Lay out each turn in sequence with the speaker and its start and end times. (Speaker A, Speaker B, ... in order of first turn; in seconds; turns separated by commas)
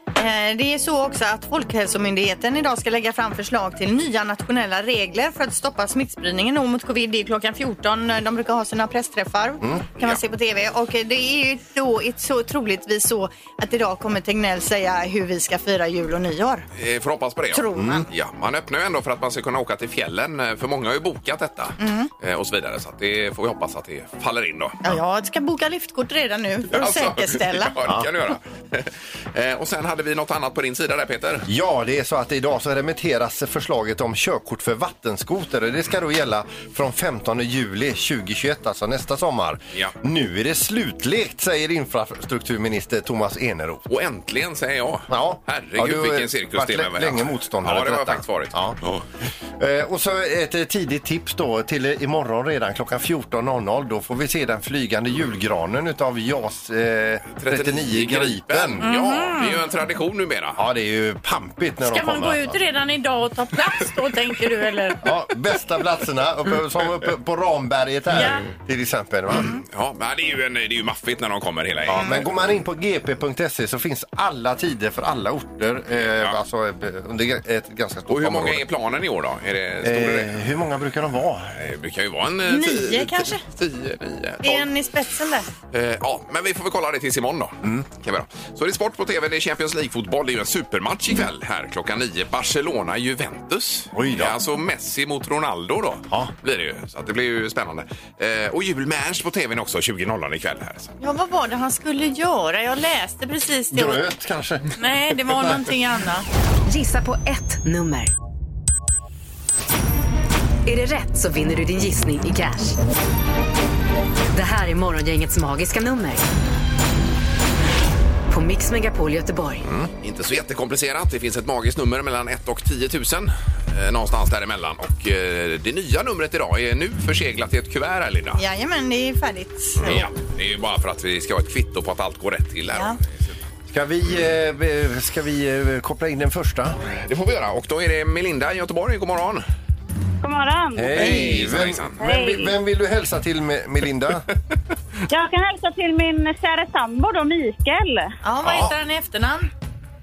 Speaker A: 0.2-16.7, Speaker B: 9.6-9.9, Speaker C: 16.8-24.8, Speaker A: 17.5-18.1, Speaker B: 17.8-18.1, Speaker A: 21.8-22.1, Speaker A: 24.8-27.8, Speaker C: 26.7-31.5, Speaker B: 31.5-43.9, Speaker C: 43.9-49.0, Speaker B: 45.1-48.8, Speaker B: 49.6-58.9, Speaker C: 57.4-60.6, Speaker A: 58.8-59.7, Speaker B: 60.6-62.6, Speaker A: 61.8-65.1, Speaker B: 65.0-69.5, Speaker A: 68.2-68.5, Speaker C: 69.4-72.2, Speaker B: 71.8-78.6, Speaker C: 78.1-80.5, Speaker B: 79.8-81.5, Speaker C: 81.6-84.7, Speaker A: 82.5-83.4, Speaker A: 84.4-85.5, Speaker C: 85.7-100.9, Speaker B: 93.9-94.4, Speaker A: 101.0-104.0, Speaker B: 103.7-104.7, Speaker A: 104.8-106.3, Speaker B: 105.3-105.6, Speaker D: 106.7-108.1, Speaker D: 110.7-112.8, Speaker D: 114.3-116.2, Speaker D: 118.3-119.6, Speaker C: 119.8-128.4, Speaker A: 128.4-130.1, Speaker C: 129.8-133.3, Speaker A: 132.7-133.0, Speaker B: 133.7-136.8, Speaker C: 136.9-139.4, Speaker E: 140.2-142.5, Speaker B: 140.7-144.3, Speaker C: 140.9-142.0, Speaker E: 145.1-148.2, Speaker A: 148.2-149.5, Speaker C: 148.4-148.8